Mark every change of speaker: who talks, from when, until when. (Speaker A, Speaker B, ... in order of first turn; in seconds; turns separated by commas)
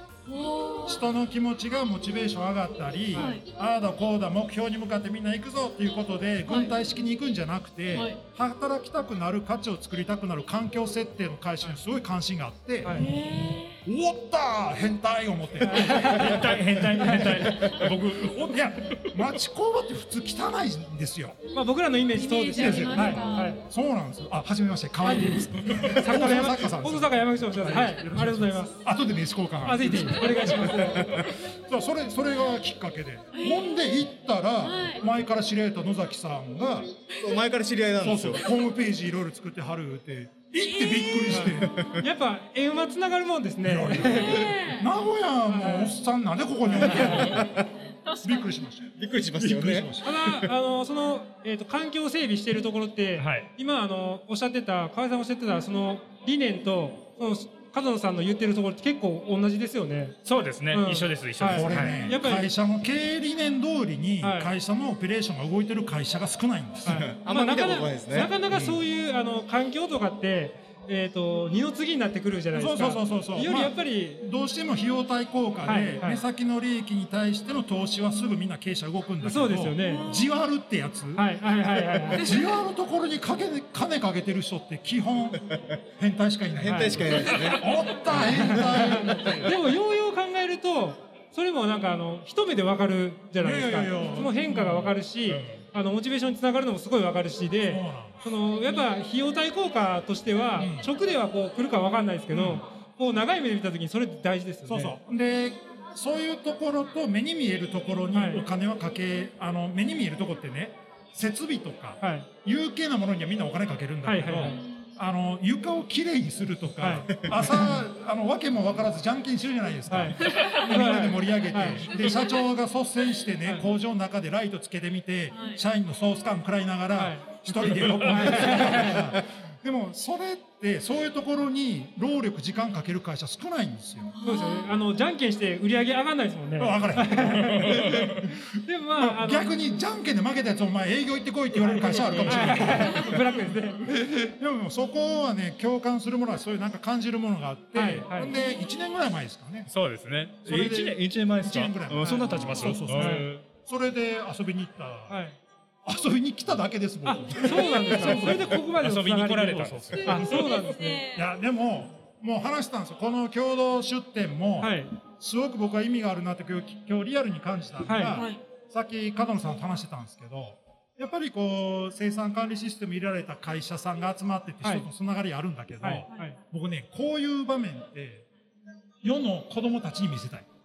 Speaker A: 0.3-1.0, Speaker B: 0.9-13.1, Speaker A: 3.1-3.4, Speaker A: 7.9-8.2, Speaker C: 12.8-13.1, Speaker A: 12.9-13.8, Speaker B: 13.8-21.4, Speaker C: 15.6-17.4, Speaker D: 16.1-19.2, Speaker C: 21.5-23.6, Speaker A: 22.1-23.6, Speaker B: 22.5-36.9, Speaker C: 25.0-28.8, Speaker C: 29.6-31.1, Speaker A: 33.3-33.7, Speaker A: 34.6-35.0, Speaker E: 37.2-38.5, Speaker B: 38.0-41.8, Speaker A: 40.6-41.4, Speaker C: 41.3-44.4, Speaker E: 41.5-42.0, Speaker B: 43.6-47.6, Speaker A: 44.1-44.9, Speaker C: 45.5-46.0, Speaker C: 46.6-47.4, Speaker A: 47.1-48.4, Speaker B: 48.2-50.1, Speaker E: 49.0-50.5, Speaker C: 50.0-60.2, Speaker D: 53.2-53.5, Speaker D: 60.2-62.0, Speaker C: 60.7-62.5, Speaker B: 61.4-67.0, Speaker C: 64.2-64.5, Speaker C: 66.8-74.3, Speaker E: 66.9-68.3, Speaker B: 68.5-68.8, Speaker B: 72.5-81.3, Speaker C: 75.6-76.2, Speaker C: 79.2-80.1, Speaker A: 79.9-80.2, Speaker C: 81.1-82.4, Speaker B: 82.2-89.5, Speaker E: 86.5-87.7, Speaker C: 86.7-87.1, Speaker C: 88.1-105.0, Speaker E: 88.3-88.7, Speaker B: 93.4-95.0, Speaker D: 95.3-95.6, Speaker B: 97.7-98.2, Speaker B: 100.6-100.9, Speaker B: 102.3-102.6, Speaker B: 104.7-134.2, Speaker C: 108.1-108.5, Speaker C: 112.0-112.3, Speaker C: 114.0-114.6, Speaker C: 116.8-117.2, Speaker C: 119.9-121.9, Speaker A: 125.3-125.6, Speaker C: 127.0-129.2, Speaker D: 127.7-128.3, Speaker A: 134.2-134.7, Speaker C: 134.2-139.6, Speaker B: 136.6-138.4, Speaker D: 137.8-138.1, Speaker B: 139.0-143.5, Speaker C: 141.6-143.9, Speaker D: 142.2-142.7, Speaker A: 142.8-143.2, Speaker B: 144.0-149.7, Speaker C: 147.7-148.3, Speaker D: 149.7-153.4, Speaker B: 150.4-155.2, Speaker C: 152.0-153.3, Speaker C: 155.1-155.4, Speaker B: 155.8-158.7, Speaker C: 157.0-161.0, Speaker D: 158.4-160.2, Speaker B: 159.8-178.3, Speaker A: 160.0-161.3, Speaker C: 164.6-164.9, Speaker C: 167.8-168.3, Speaker A: 168.2-168.4, Speaker C: 174.6-174.9, Speaker C: 175.8-176.4, Speaker B: 179.0-180.5